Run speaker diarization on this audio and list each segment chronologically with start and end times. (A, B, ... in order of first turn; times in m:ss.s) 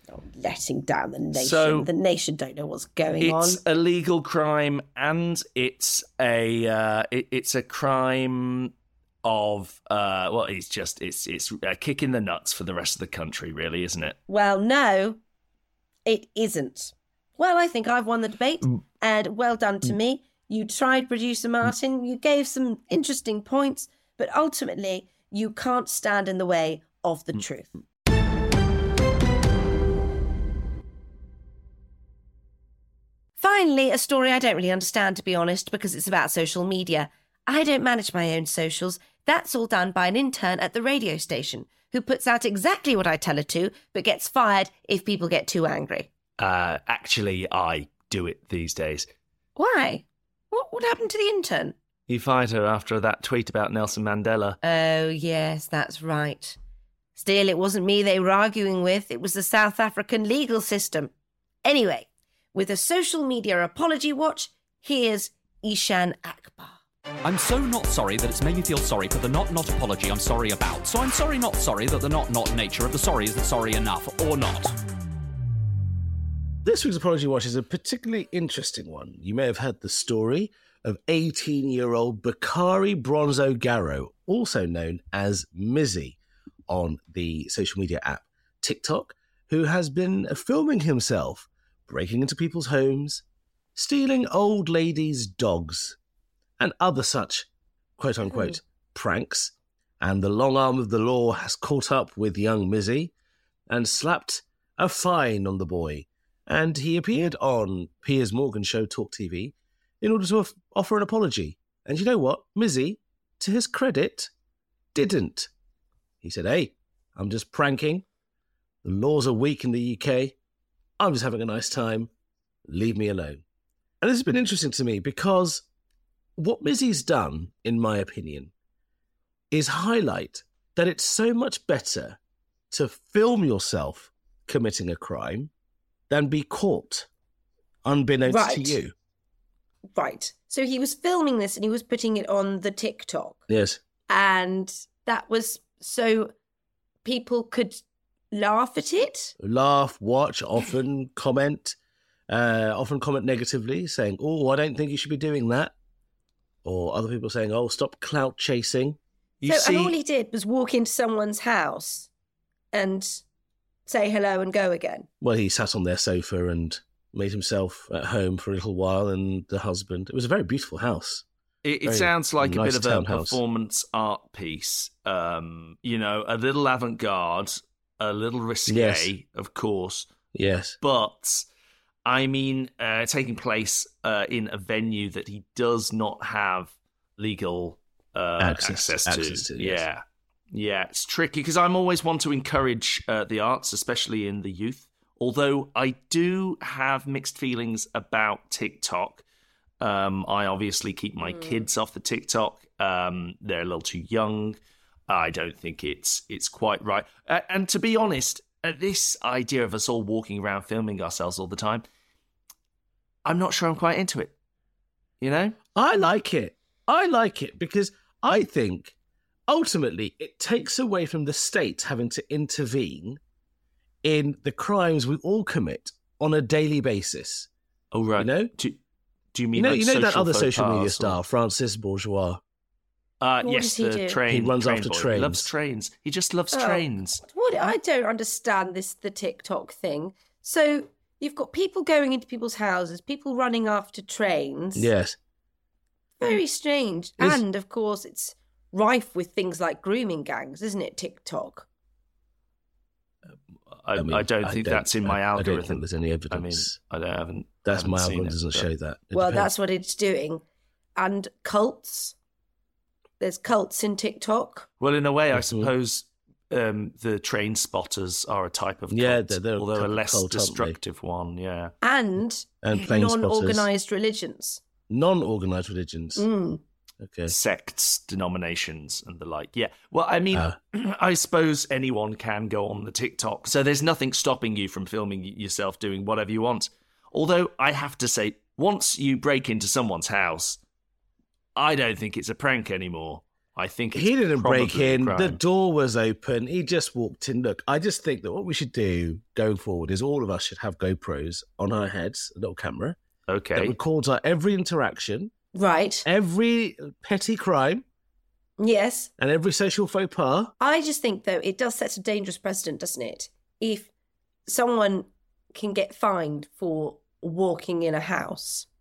0:00.1-0:03.6 A
0:01.3-0:01.9 B
0:03.2-0:08.7 B
0:09.2-0:14.2 B
0:14.3-0:15.2 A
0:16.0-0:27.8 A
0:33.4-0:46.1 A
0:46.4-0:49.1 B
0:49.6-0:51.8 A
0:52.1-0:54.6 B
0:54.6-0:56.6 A
0:57.2-1:01.1 A
1:01.6-1:06.8 A
1:07.2-1:14.8 C
1:16.6-1:33.2 D
1:33.8-1:36.0 D
1:36.6-1:43.1 D
1:38.2-1:38.6 A
1:43.7-1:54.3 D
1:55.0-1:55.5 D
1:56.2-1:58.0 D
1:58.8-2:00.4 D
2:01.0-2:02.1 D
2:02.7-2:03.4 D
2:04.0-2:05.6 D
2:06.4-2:08.5 D
2:09.5-2:12.2 D
2:12.7-2:15.5 D
2:16.1-2:17.1 D
2:17.8-2:18.9 D
2:18.3-2:18.8 A
2:19.9-2:23.4 A
2:23.5-2:23.8 D
2:24.1-2:26.3 A
2:27.0-2:29.4 A
2:29.4-2:31.8 D
2:32.3-2:35.7 D
2:36.6-2:39.0 D
2:39.4-2:40.0 B
2:39.4-2:42.1 A
2:42.7-2:43.2 A
2:43.9-2:45.1 A
2:45.2-2:51.2 D
2:51.6-3:00.1 B
2:51.8-2:53.4 D
2:58.7-2:59.1 D
3:00.3-3:00.8 D
3:00.8-3:01.5 B
3:02.0-3:19.2 B
3:08.4-3:09.8 D
3:19.8-3:24.6 B
3:21.3-3:21.7 A
3:25.1-3:31.8 B
3:33.2-3:34.3 B
3:35.2-3:35.6 B
3:35.7-3:39.0 D
3:39.5-3:43.2 D
3:44.0-3:47.5 D
3:47.9-3:48.8 B
3:48.2-3:48.5 D
3:49.3-3:51.2 B
3:49.6-3:52.4 D
3:53.2-3:57.2 B
3:53.4-3:54.2 A
3:54.3-3:55.5 D
3:56.5-4:04.9 A
4:04.8-4:05.2 D
4:06.2-4:11.7 A
4:13.8-4:18.7 B
4:14.0-4:16.8 D
4:17.6-4:19.5 D
4:19.1-4:20.4 A
4:21.0-4:22.2 A
4:23.2-4:24.7 A
4:24.8-4:31.7 B
4:25.3-4:25.7 D
4:28.9-4:30.8 D
4:31.8-4:34.6 A
4:32.6-4:33.7 D
4:34.9-4:36.3 D
4:36.2-4:36.6 A
4:37.0-4:37.3 D
4:37.3-4:50.6 B
4:51.6-4:55.4 B
4:53.9-5:03.0 D
5:03.3-5:03.8 B
5:03.6-5:05.3 D
5:05.5-5:06.1 A
5:06.0-5:07.8 D
5:08.6-5:09.1 A
5:09.2-5:10.5 D
5:10.6-5:13.9 A
5:14.5-5:18.7 A